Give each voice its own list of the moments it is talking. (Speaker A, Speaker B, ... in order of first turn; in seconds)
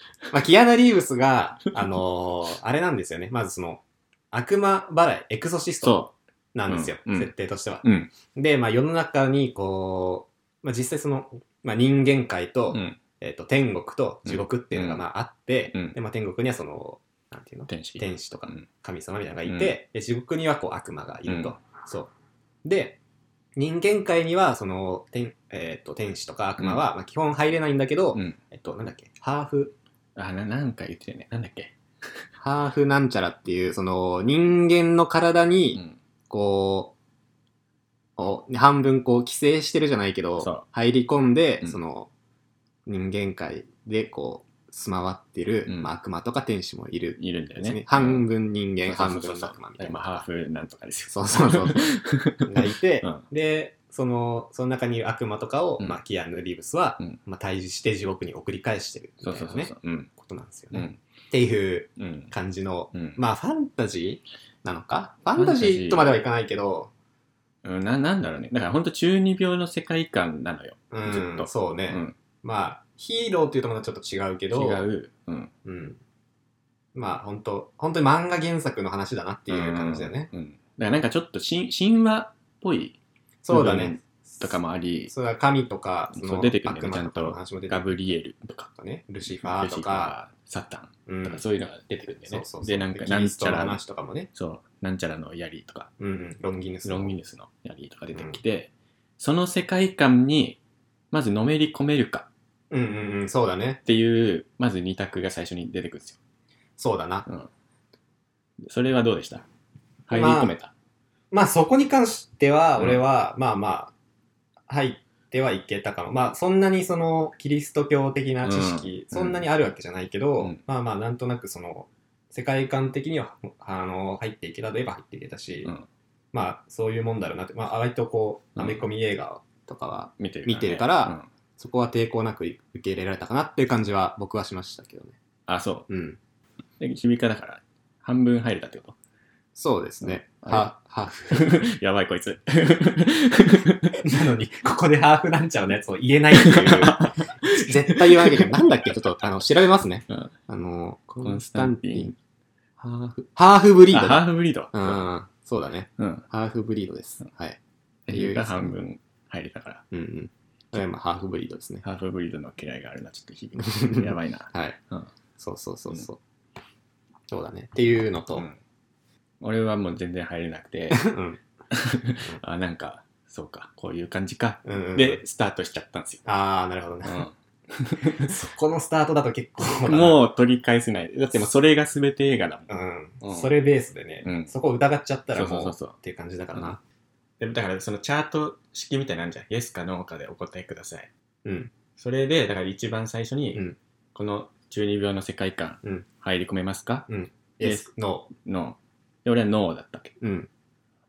Speaker A: 0.3-22.1, 22.6-23.0, 23.6-29.7, 32.4-36.9, 38.2-42.1, 42.9-50.2, 51.1-51.9, 52.4-66.9, 70.9-74.9, 75.6-76.0, 76.9-80.3, 83.4-84.5, 85.1-87.9, 88.7-90.2, 91.1-91.4, 92.3-94.3, 96.0-97.1, 98.1-98.4, 102.7-103.8, 106.8-107.3, 110.1-110.5, 111.3-113.9, 114.7-125.7, 126.3-135.2, 135.9-136.2, 139.5-141.6, 144.0-152.1, 152.8-157.6, 158.1-158.7, 159.9-161.8, 163.6-164.8, 165.4-166.2, 167.3-168.5, 170.9-171.4, 174.6-175.2, 176.2-177.3, 178.1-180.3, 182.7-186.8, 191.4-191.7, 197.1-198.3, 200.2-200.5
Speaker B: 5.8-6.1, 6.7-7.3, 7.8-8.1, 12.7-13.0, 14.2-15.0, 15.7-15.9, 17.7-18.6, 19.5-19.7, 21.2-21.5, 30.1-31.7, 40.4-40.6, 45.6-45.9, 47.2-48.2, 48.8-53.2, 59.2-60.1, 62.0-62.3, 62.9-63.2, 65.3-66.2, 67.6-72.1, 74.5-75.5, 79.5-83.0, 83.5-85.1, 86.1-88.7, 89.2-93.8, 94.3-95.9, 96.8-100.6, 101.1-102.3, 103.8-106.2, 108.6-109.4, 110.1-110.7, 118.4-119.4, 130.2-131.2, 135.5-135.9, 136.8-138.9, 140.0-140.7, 141.3-143.9, 146.3-148.5, 151.2-152.1, 153.9-155.0, 156.0-156.2, 158.1-159.8, 161.8-165.1, 169.4-171.1, 171.7-176.3, 177.0-178.3, 179.6-182.7, 183.2-183.5, 184.2-184.5, 185.3-185.9, 187.4-191.1, 192.0-197.1, 197.6-200.1